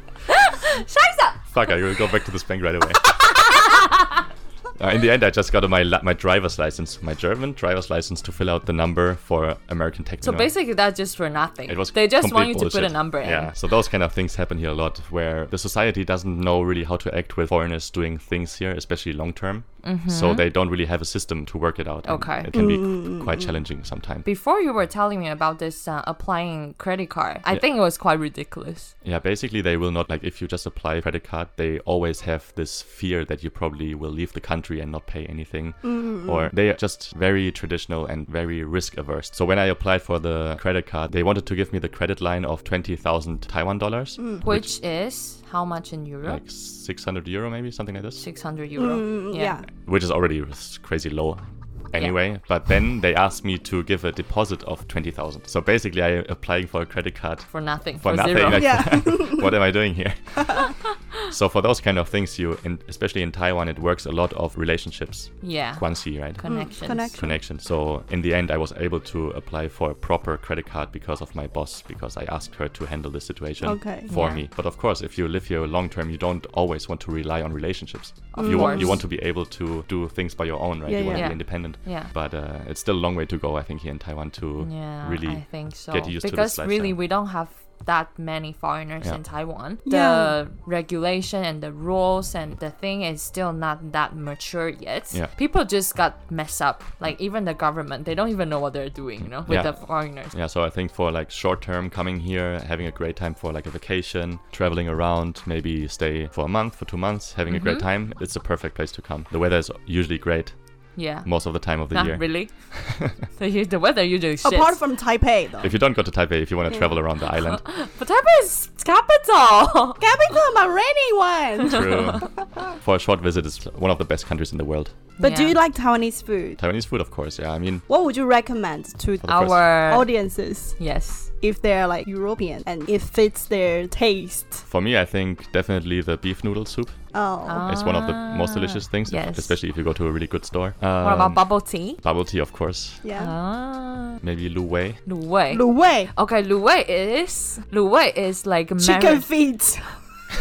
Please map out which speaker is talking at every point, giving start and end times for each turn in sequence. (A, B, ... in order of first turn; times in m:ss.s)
0:00.3-0:01.4 A
0:01.5-0:03.4 B
0:03.0-0:04.1 A
0:04.8-0:10.5 B
0:10.2-0:13.5 A
0:11.7-0:24.3 B
0:19.8-0:20.5 A
0:22.1-0:22.5 A
0:22.5-0:23.6 C
0:24.2-0:28.9 A
0:29.0-0:44.7 B
0:35.8-0:36.5 C
0:44.2-0:44.4 C
0:44.4-0:46.4 A
0:46.2-0:48.2 B
0:48.2-0:49.6 A
0:48.8-0:49.7 C
0:49.8-1:27.0 B
0:57.5-0:58.9 A
0:58.5-0:59.6 C
1:00.6-1:00.9 A
1:05.4-1:07.1 A
1:06.4-1:07.4 C
1:13.6-1:14.1 C
1:14.1-1:14.5 A
1:18.3-1:19.0 A
1:18.3-1:19.0 C
1:20.9-1:21.3 C
1:21.1-1:22.1 A
1:24.6-1:40.3 A
1:29.8-1:30.4 C
1:39.2-1:50.6 B
1:47.5-1:47.8 A
1:51.0-1:54.8 A
1:51.1-1:53.2 B
1:54.4-1:55.8 C
1:55.6-1:57.6 B
1:57.4-2:00.4 A
2:00.0-2:02.3 C
2:01.7-2:05.0 B
2:01.7-2:02.3 A
2:05.2-2:06.6 C
2:05.2-2:05.6 A
2:06.6-2:07.8 B
2:07.9-2:10.8 C
2:09.2-2:09.6 B
2:09.3-2:10.1 A
2:10.8-2:11.3 A
2:11.4-2:14.6 C
2:14.7-2:17.0 B
2:17.1-2:17.6 C
2:17.4-2:19.5 A
2:17.6-2:21.5 B
2:21.0-2:22.0 A
2:22.0-2:23.0 B
2:23.0-2:23.3 C
2:23.2-2:24.2 A
2:24.2-2:25.0 B
2:25.1-2:29.3 A
2:25.5-2:26.1 C
2:28.8-2:30.0 C